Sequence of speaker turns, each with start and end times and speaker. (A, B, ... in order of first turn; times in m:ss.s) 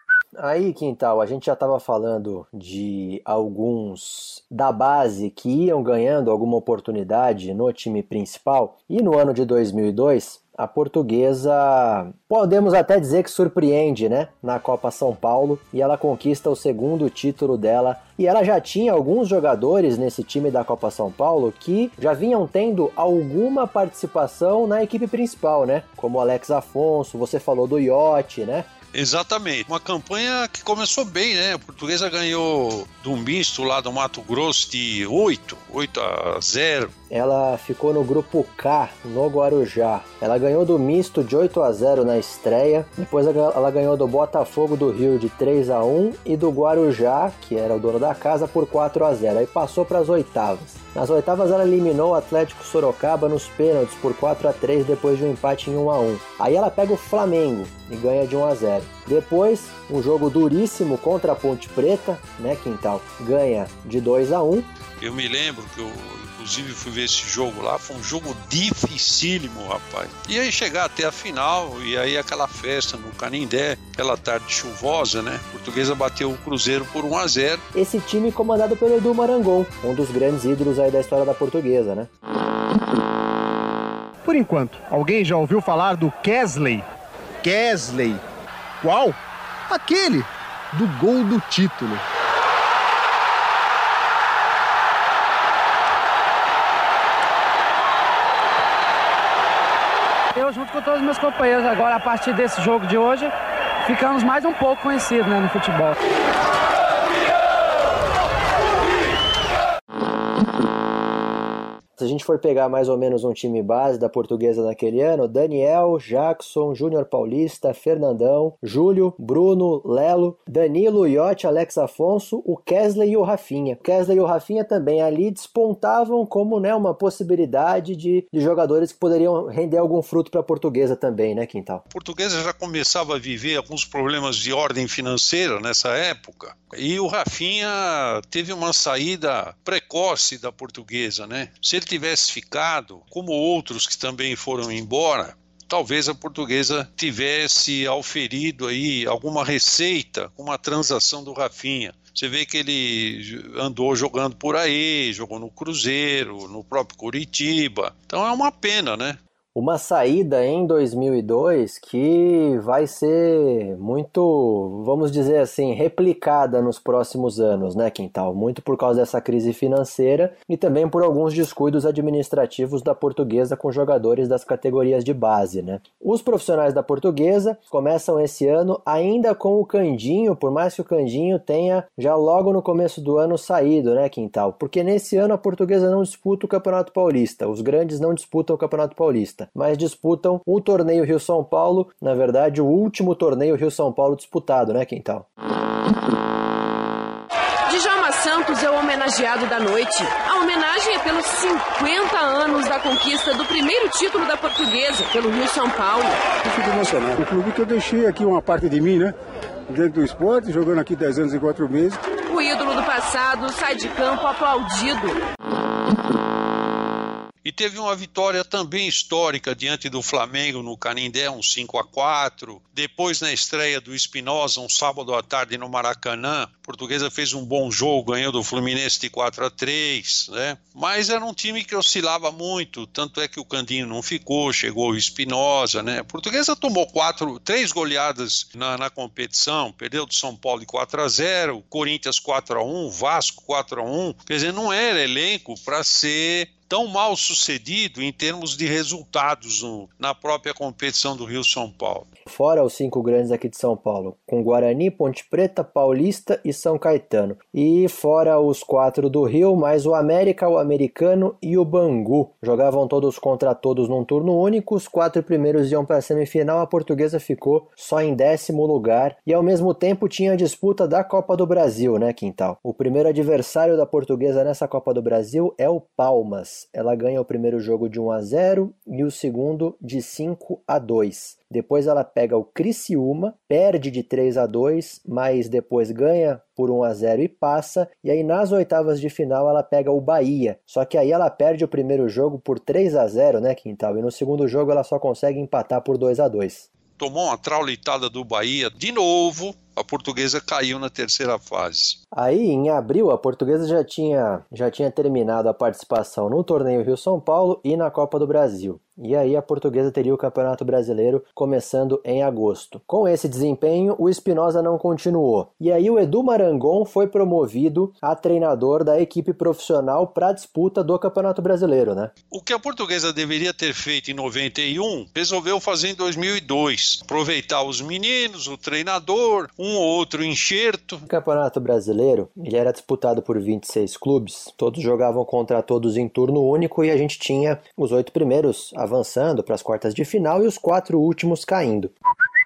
0:00.4-0:28.7 A
0:28.9-0:36.9 B
0:37.1-1:04.7 A
1:05.0-1:17.6 B
1:17.7-1:22.1 A
1:24.2-1:26.8 C
1:27.4-1:28.2 C
1:28.8-1:29.2 C
1:29.7-1:32.0 C
1:40.3-1:43.3 D
1:43.8-1:45.9 D
1:52.0-2:11.8 A
2:11.9-2:39.2 B
2:39.5-3:15.2 A
3:17.7-3:26.2 E
3:26.4-3:29.2 F
3:29.7-3:32.0 F
3:32.2-3:35.2 E
3:37.4-4:12.1 B
4:12.3-4:56.6 A
4:57.0-5:02.0 B
5:02.1-5:22.1 A
5:22.3-5:31.0 B
5:31.0-5:41.9 A